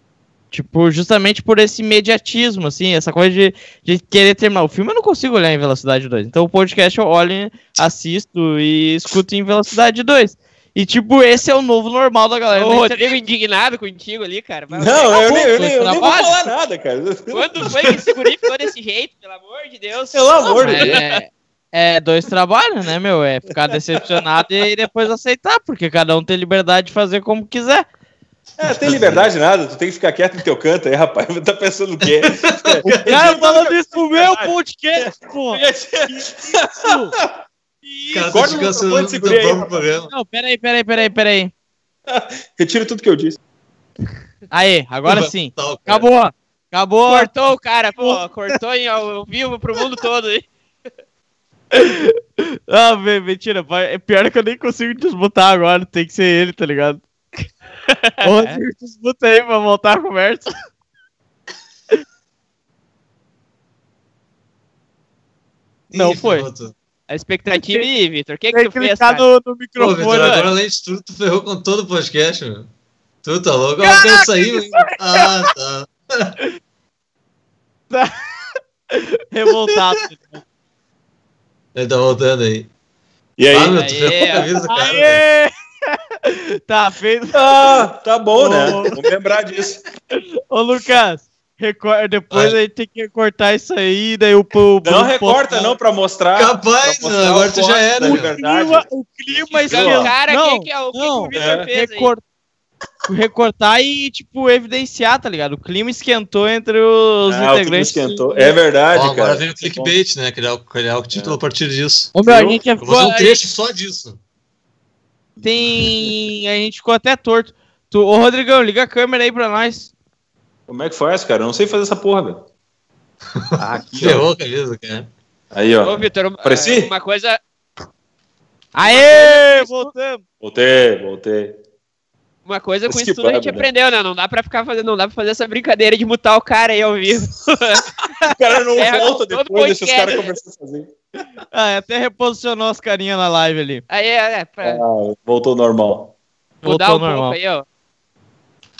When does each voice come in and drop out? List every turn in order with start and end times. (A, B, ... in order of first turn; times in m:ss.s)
0:00.5-0:13.1 A
0:12.5-0:15.7 B
0:14.7-0:17.6 C
0:15.2-0:16.4 A
0:17.3-0:21.2 B
0:20.1-0:21.0 C
0:20.6-0:27.8 A
0:28.6-0:37.4 C
0:28.6-0:29.2 D
0:32.3-0:33.4 D
0:32.8-0:35.6 A
0:36.8-0:37.1 A
0:37.9-0:38.6 A
0:38.1-0:40.1 D
0:38.3-0:39.8 C
0:40.1-0:41.5 A
0:42.1-0:43.4 C
0:44.5-0:47.3 A
0:45.1-0:46.0 D
0:47.1-0:50.5 B
0:48.0-0:48.2 A
0:51.7-0:57.0 A
0:57.9-0:58.6 B
0:58.2-1:00.5 A
1:05.9-1:06.7 D
1:05.9-1:06.5 A
1:07.1-1:09.3 B
1:08.5-1:10.5 A
1:09.8-1:12.7 D
1:10.1-1:10.4 B
1:13.2-1:16.4 D
1:13.8-1:15.3 A
1:17.9-1:18.2 A
1:18.9-1:20.4 A
1:21.7-1:22.7 D
1:23.4-1:24.6 C
1:23.5-1:25.2 D
1:23.7-1:27.8 A
1:27.3-1:29.8 C
1:28.4-1:29.0 A
1:30.1-1:35.7 A
1:34.8-1:38.8 C
1:36.3-1:38.3 D
1:38.4-1:42.2 A
1:39.6-1:42.1 B
1:39.7-1:40.1 C
1:41.3-1:41.7 C
1:43.1-1:48.5 A
1:47.3-1:49.9 C
1:48.9-1:52.1 D
1:52.1-1:53.4 A
1:52.2-1:52.6 C
1:52.8-1:54.2 D
1:55.4-1:59.9 A
2:00.7-2:02.4 C
2:03.4-2:05.1 D
2:03.6-2:04.2 A
2:03.7-2:04.2 C
2:05.5-2:06.9 C
2:05.8-2:07.4 B
2:08.7-2:10.2 A
2:08.8-2:09.9 B
2:10.4-2:11.6 C
2:12.4-2:20.3 B
2:12.9-2:13.7 C
2:18.2-2:20.9 C
2:21.5-2:23.8 A
2:23.9-2:24.8 B
2:24.6-2:26.1 C
2:26.6-2:27.6 B
2:26.6-2:27.4 A